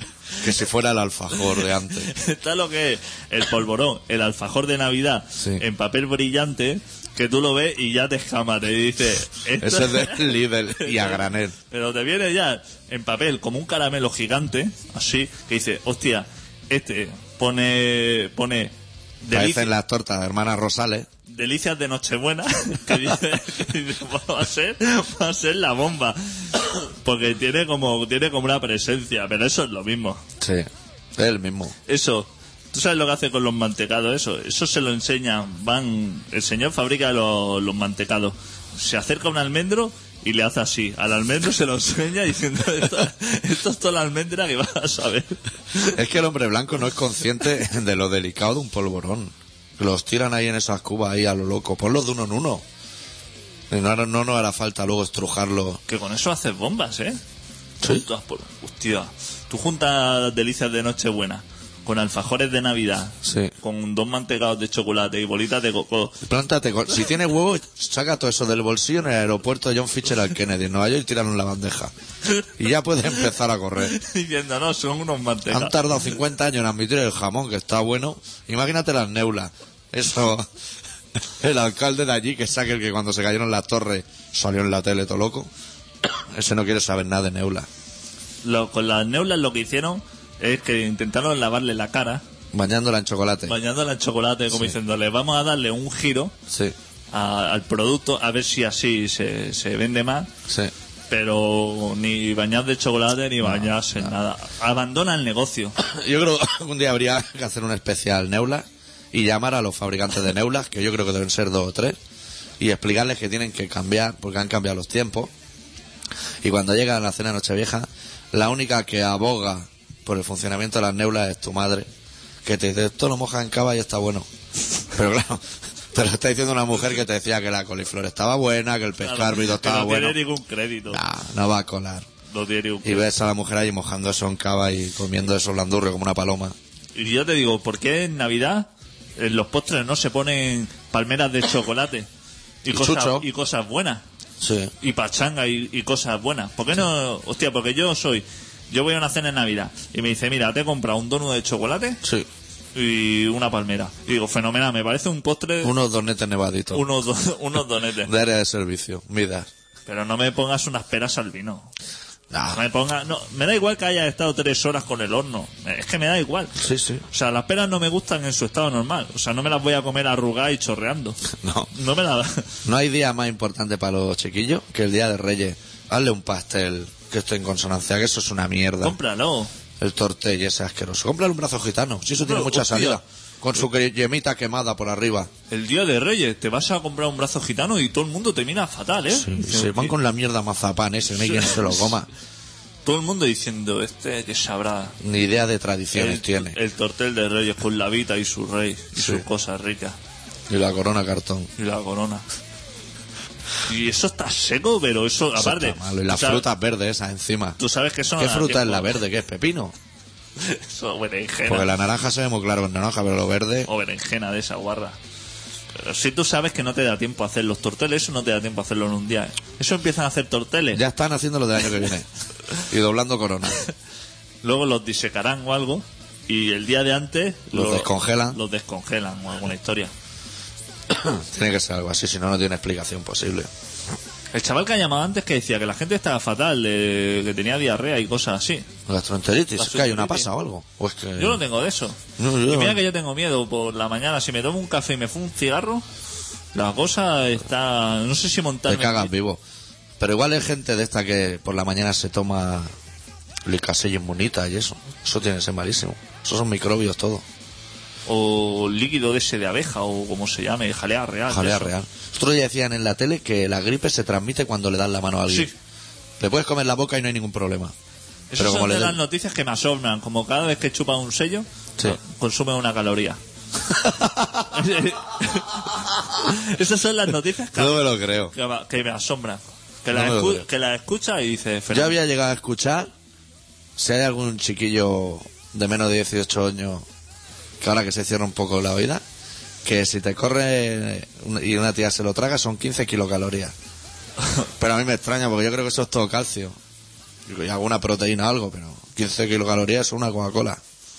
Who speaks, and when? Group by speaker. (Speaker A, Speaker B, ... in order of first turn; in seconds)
Speaker A: 0.4-2.1, 5.4-5.6, 9.6-11.5, 19.3-21.1, 30.4-31.7, 45.9-52.6, 53.7-55.8, 63.2-63.5, 66.2-71.9, 72.6-74.0, 75.5-80.5, 81.2-85.5, 86.0-87.7, 92.5-93.5, 96.5-96.8, 100.5-100.7, 103.4-104.1, 105.8-112.0, 112.6-115.3, 116.4-121.9, 122.4-124.3, 124.8-130.2, 130.9-132.1, 132.8-136.5, 142.7-143.3, 144.4-144.7, 152.0-152.3, 155.6-156.8, 158.0-159.5, 162.3-162.6, 166.6-167.0, 171.3-171.7, 172.6-179.0, 179.8-185.3, 189.1-192.1, 195.0-196.6, 198.9-199.2, 200.5-201.5, 205.3-207.6, 208.2-209.7, 211.4-213.7, 220.7-222.1, 222.6-223.6, 227.5-228.4, 230.9-233.5, 238.9-241.4, 242.2-242.8, 248.7-249.4, 250.0-252.7, 253.4-257.2, 261.3-265.5, 266.2-267.7, 268.4-269.0, 273.7-274.6, 277.5-278.3, 279.9-280.4, 281.7-282.9, 283.8-286.9, 287.6-289.0, 289.6-293.5, 294.6-296.6, 297.3-300.6
Speaker B: 2.0-19.7, 21.3-30.2, 31.9-46.0, 55.9-57.2, 57.8-66.2, 73.8-75.9, 88.4-92.2, 93.5-96.3, 97.1-100.3, 101.1-105.8, 129.0-131.0, 132.3-133.1, 136.9-142.1, 142.6-144.0, 144.8-152.0, 152.7-155.7, 156.7-158.1, 159.9-161.7, 162.5-171.2, 171.7-172.5, 178.8-179.5, 182.2-183.0, 185.5-189.9, 191.2-191.8, 192.8-195.0, 195.9-199.9, 201.6-202.2, 203.6-206.4, 207.6-209.0, 210.4-211.7, 213.7-215.0, 215.7-220.8, 224.4-229.9, 234.3-238.7, 239.6-240.3, 241.2-245.8, 246.5-249.1, 258.1-261.7, 268.3-273.2, 274.5-281.9